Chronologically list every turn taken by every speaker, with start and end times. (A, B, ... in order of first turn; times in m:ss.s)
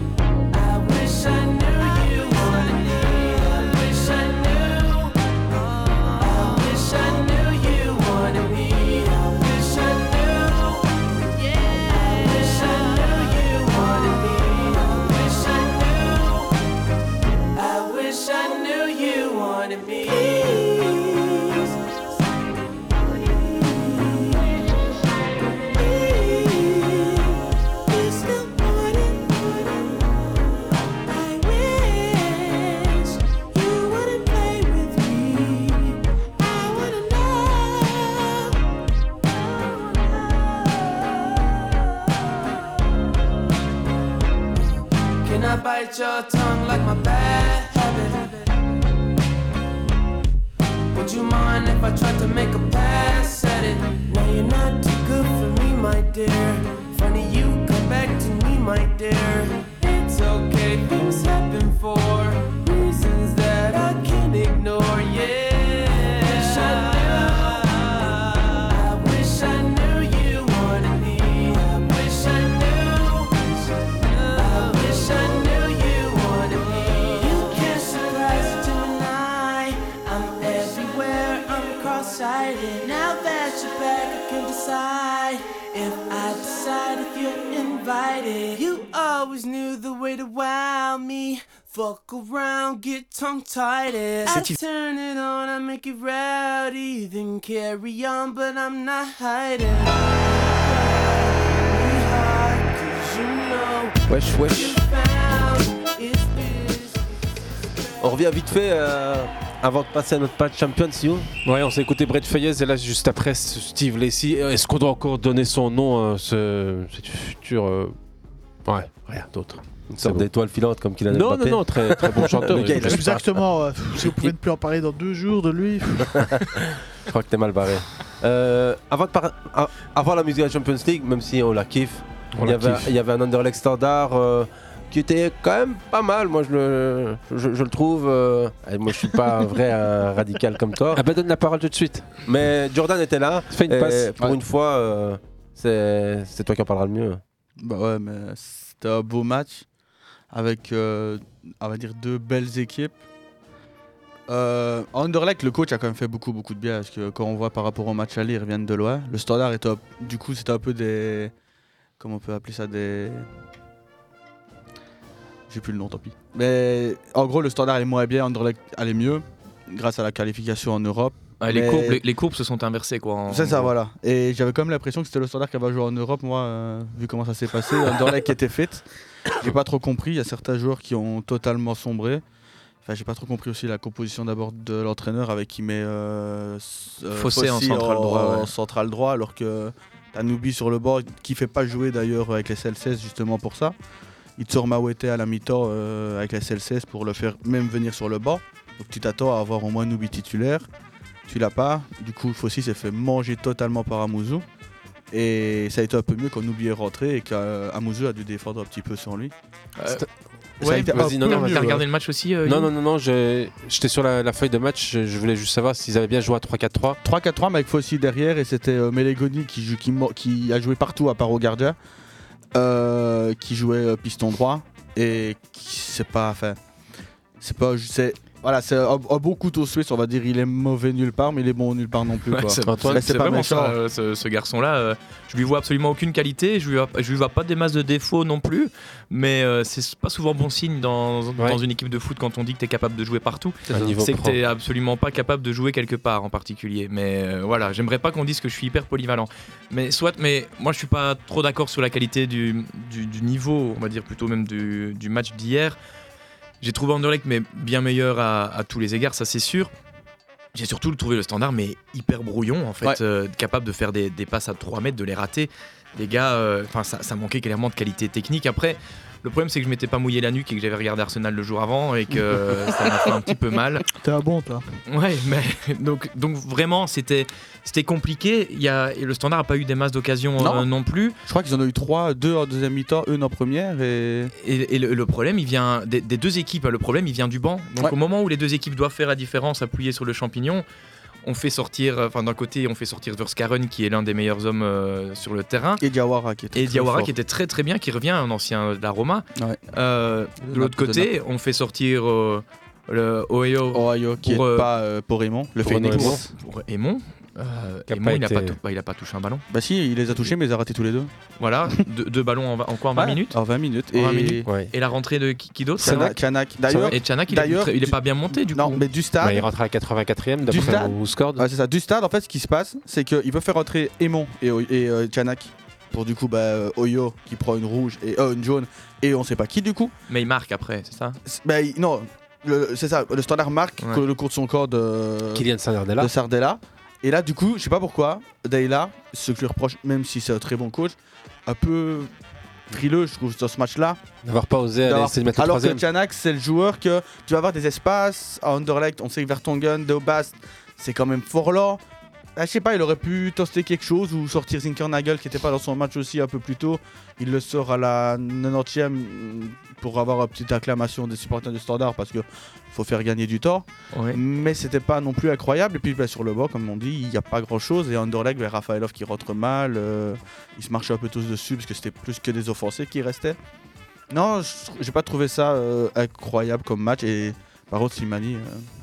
0:00.5-0:16.5 A
0:17.5-0:21.7 A
0:22.9-0:24.5 A
0:25.7-0:38.5 A
0:39.3-0:42.3 A
0:45.2-0:48.5 A
0:50.9-1:47.1 A
1:34.3-1:34.5 B
1:44.1-1:44.8 C
1:48.0-1:51.3 C
1:51.4-1:57.9 D
1:58.6-2:00.2 D
1:59.9-2:03.2 C
2:01.1-2:03.2 D
2:02.8-2:06.2 E
2:07.1-2:21.0 C
2:12.4-2:12.9 D
2:20.9-2:22.2 D
2:22.2-2:27.2 C
2:23.5-2:24.1 D
2:27.6-2:29.6 F
2:30.3-2:33.0 F
2:34.3-2:41.3 F
2:42.0-2:43.3 F
2:45.5-2:52.0 F
2:51.4-2:53.7 B
2:53.3-2:58.8 F
2:59.4-3:02.2 F
3:02.8-3:13.7 F
3:07.1-3:08.5 B
3:14.4-3:20.7 F
3:21.3-3:24.4 F
3:25.1-3:29.3 F
3:29.8-3:30.0 B
3:30.6-3:32.7 B
3:30.6-3:31.8 F
3:30.6-3:31.8 D
3:32.4-3:37.0 D
3:37.0-3:41.8 F
3:42.5-3:46.6 F
3:47.4-3:53.8 F
3:52.3-4:15.8 B
3:52.6-3:53.0 D
4:03.7-4:04.4 D
4:16.6-4:19.7 B
4:20.5-4:33.8 B
4:34.0-4:34.6 E
4:34.9-4:41.1 B
4:40.4-4:40.6 F
4:41.3-4:44.3 F
4:44.4-4:50.6 B
4:51.2-4:55.8 B
4:55.8-4:57.1 F
4:56.5-5:04.7 B
5:00.5-5:01.1 F
5:03.7-5:06.3 F
5:05.6-5:06.2 D
5:06.0-5:09.4 B
5:07.9-5:08.6 D
5:09.5-5:11.1 F
5:11.4-5:13.4 B
5:13.0-5:14.4 F
5:13.9-5:16.2 B
5:15.8-5:18.0 F
5:16.8-5:18.8 B
5:18.5-5:19.5 F
5:19.2-5:21.4 D
5:20.5-5:29.9 F
5:30.1-5:31.2 B
5:31.2-5:42.1 F
5:35.3-5:36.1 D
5:42.7-5:44.0 F
5:44.2-5:45.8 D
5:44.8-5:51.8 F
5:52.4-6:13.4 F
6:03.9-6:04.2 B
6:14.1-6:18.6 F